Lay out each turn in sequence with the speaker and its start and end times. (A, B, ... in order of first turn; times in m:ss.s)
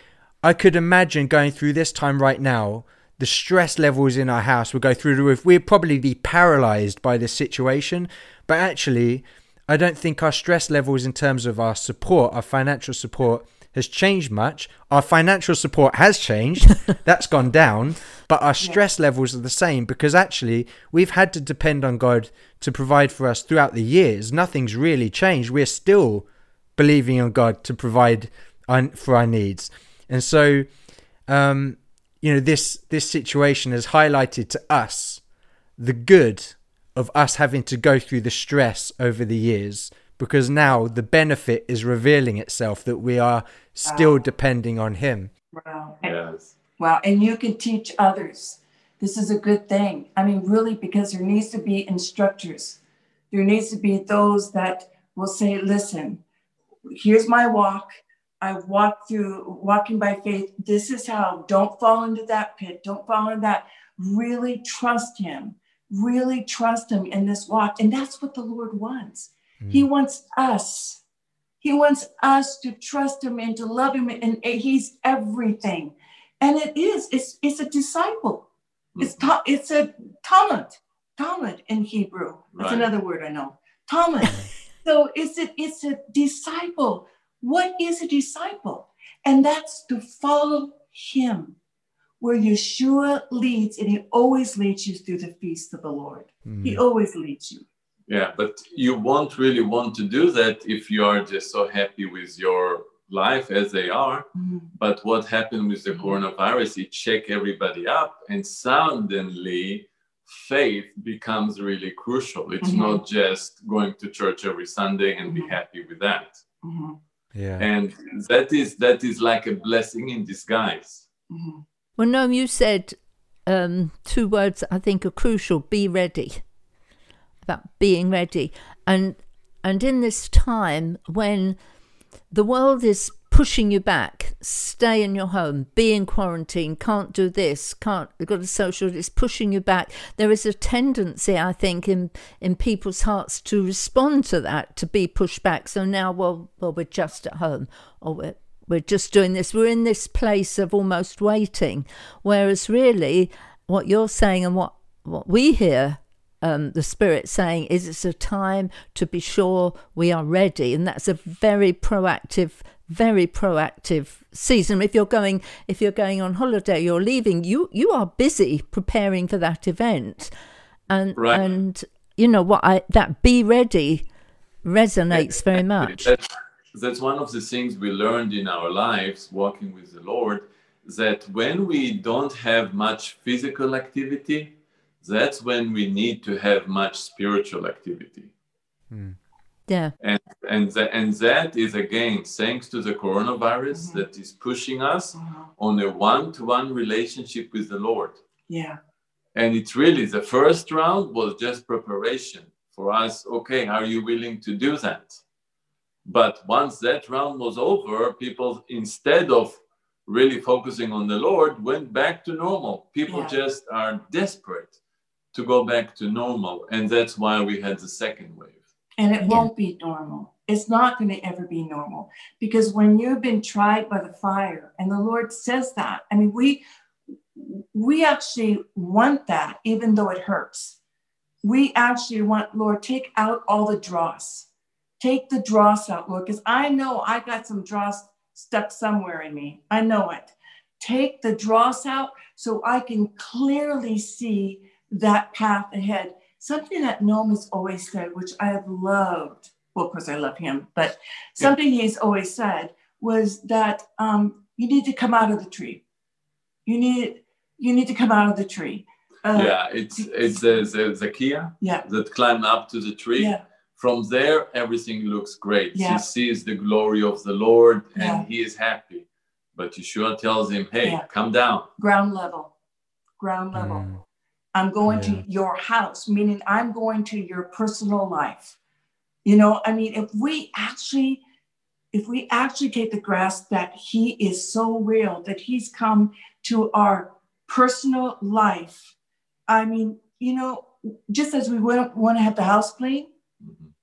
0:00.4-0:30.7 A
0:31.3-0:35.2 A
0:35.8-0:45.3 A
0:45.5-0:46.1 B
0:46.0-0:46.5 C
0:46.8-0:52.8 B
0:53.3-0:56.2 B
0:56.9-1:11.0 B
1:09.6-1:09.9 A
1:11.6-1:18.5 B
1:19.0-1:19.3 C
1:19.0-1:31.6 B
1:22.5-1:22.9 C
1:32.2-1:37.6 B
1:36.5-1:36.8 A
1:38.1-1:56.4 C
1:44.4-1:44.7 B
1:45.9-1:46.2 B
1:52.6-1:53.0 B
1:55.2-1:55.6 B
1:56.6-1:57.0 B
1:57.4-1:57.7 A
1:57.6-2:01.0 C
2:01.3-2:01.6 B
2:02.0-2:06.4 D
2:07.4-2:11.6 D
2:12.3-2:50.3 D
2:50.9-2:54.1 D
2:51.2-2:51.5 C
2:54.6-2:56.1 D
2:55.1-3:08.3 C
3:08.9-3:09.2 A
3:09.7-3:09.9 D
3:10.0-3:18.2 C
3:13.7-3:14.0 B
3:15.2-3:15.5 B
3:18.5-3:18.8 B
3:19.4-3:25.2 C
3:26.0-3:34.8 C
3:33.1-3:33.4 B
3:35.3-3:38.6 C
3:39.0-3:46.6 B
3:39.2-3:39.5 D
3:47.4-3:50.8 B
3:51.4-3:54.5 B
3:55.0-4:15.8 B
4:16.7-4:20.1 B
4:19.3-4:31.7 C
4:23.2-4:23.4 B
4:25.8-4:26.0 B
4:28.0-4:28.3 B
4:31.8-4:32.5 B
4:33.2-4:34.0 B
4:33.5-4:34.0 A
4:34.5-4:38.6 B
4:34.9-4:35.2 A
4:39.2-4:41.2 B
4:41.9-4:48.9 B
4:49.5-4:53.1 B
4:53.4-4:53.7 C